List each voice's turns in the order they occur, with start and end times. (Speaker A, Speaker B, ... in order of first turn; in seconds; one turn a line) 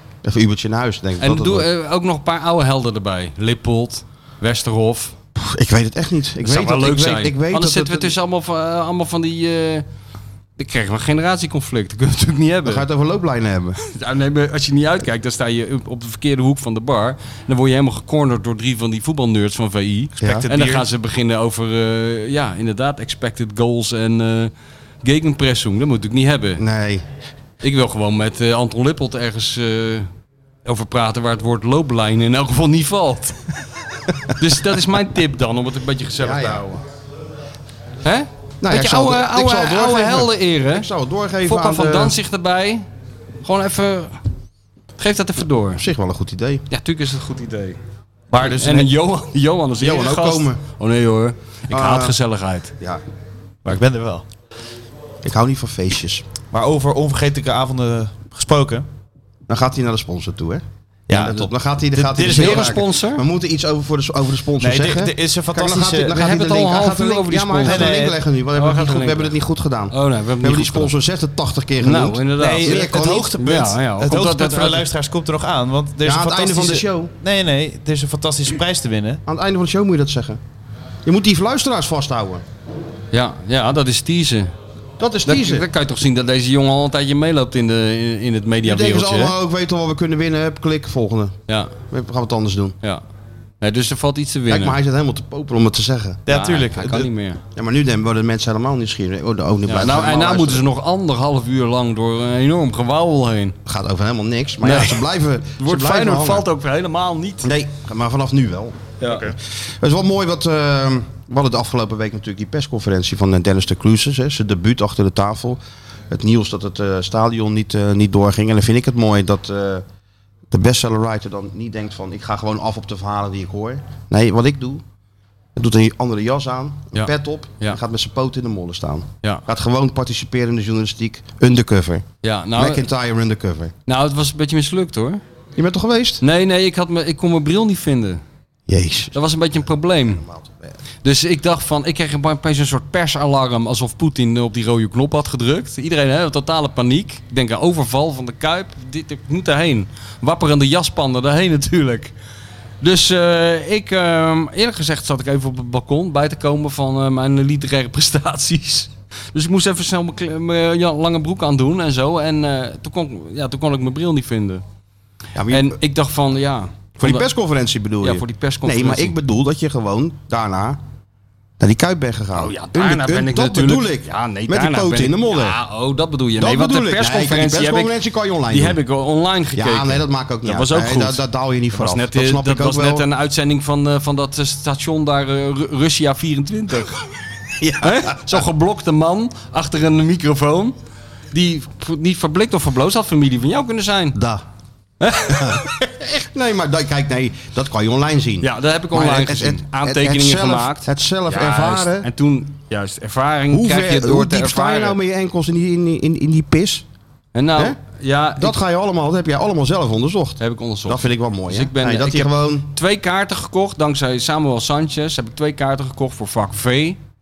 Speaker A: 0.2-1.7
Speaker B: 1.2-5.1
Speaker A: 5.3-8.1
Speaker B: 6.4-9.8
Speaker B: 10.6-12.8
Speaker A: 12.7-13.8
Speaker B: 13.8-24.5
Speaker C: 20.2-20.9
Speaker A: 20.2-20.4
Speaker B: 25.0-26.6
Speaker A: 26.6-27.0
Speaker B: 27.6-30.1
Speaker B: 30.6-33.4
Speaker B: 34.2-36.8
Speaker A: 36.2-36.6
Speaker B: 38.0-40.9
Speaker A: 38.6-42.2
Speaker B: 41.4-42.8
Speaker B: 43.4-44.1
Speaker B: 45.0-45.8
Speaker A: 45.8-46.6
Speaker B: 46.7-47.8
Speaker C: 48.3-48.9
Speaker B: 48.4-52.7
Speaker A: 49.8-50.6
Speaker A: 51.7-52.1
Speaker C: 53.6-54.2
Speaker A: 55.2-56.2
Speaker C: 56.5-58.9
Speaker A: 59.5-73.7
Speaker C: 61.1-62.8
Speaker B: 62.2-63.2
Speaker C: 64.6-66.3
Speaker B: 66.1-67.9
Speaker C: 67.6-68.2
Speaker B: 68.5-69.3
Speaker B: 69.9-70.9
Speaker B: 71.8-74.8
Speaker C: 72.4-79.2
Speaker A: 76.0-77.1
Speaker A: 79.2-80.4
Speaker A: 81.0-82.4
Speaker B: 83.1-84.5
Speaker A: 85.0-85.7
Speaker B: 85.2-89.3
Speaker A: 88.6-92.8
Speaker B: 93.6-94.8
Speaker A: 94.5-96.3
Speaker C: 96.2-97.1
Speaker B: 96.3-97.4
Speaker A: 97.5-100.6
Speaker C: 99.7-100.0
Speaker B: 99.8-103.5
Speaker A: 103.7-106.5
Speaker B: 104.6-105.0
Speaker B: 105.6-107.5
Speaker A: 107.4-119.8
Speaker B: 109.0-109.3
Speaker A: 120.5-124.8
Speaker A: 125.5-133.7
Speaker B: 126.9-127.8
Speaker B: 132.2-132.9
Speaker B: 133.9-135.2
Speaker A: 135.6-136.2
Speaker B: 136.2-138.2
Speaker A: 138.7-139.1
Speaker B: 139.1-140.2
Speaker A: 140.0-140.7
Speaker B: 141.0-152.1
Speaker B: 152.8-164.6
Speaker A: 165.3-165.8
Speaker B: 165.5-167.3
Speaker A: 167.0-170.8
Speaker B: 168.0-169.1
Speaker A: 171.6-175.6
Speaker B: 172.3-177.9
Speaker A: 176.4-178.8
Speaker B: 178.5-181.2
Speaker A: 179.5-183.1
Speaker B: 181.7-187.1
Speaker A: 187.6-188.4
Speaker B: 187.8-190.7
Speaker B: 191.3-194.2
Speaker A: 194.1-194.4
Speaker B: 195.0-196.1
Speaker A: 195.3-195.6
Speaker A: 196.2-202.1
Speaker B: 198.4-205.0
Speaker A: 203.5-206.8
Speaker B: 207.3-208.6
Speaker A: 208.4-212.7
Speaker B: 210.4-217.0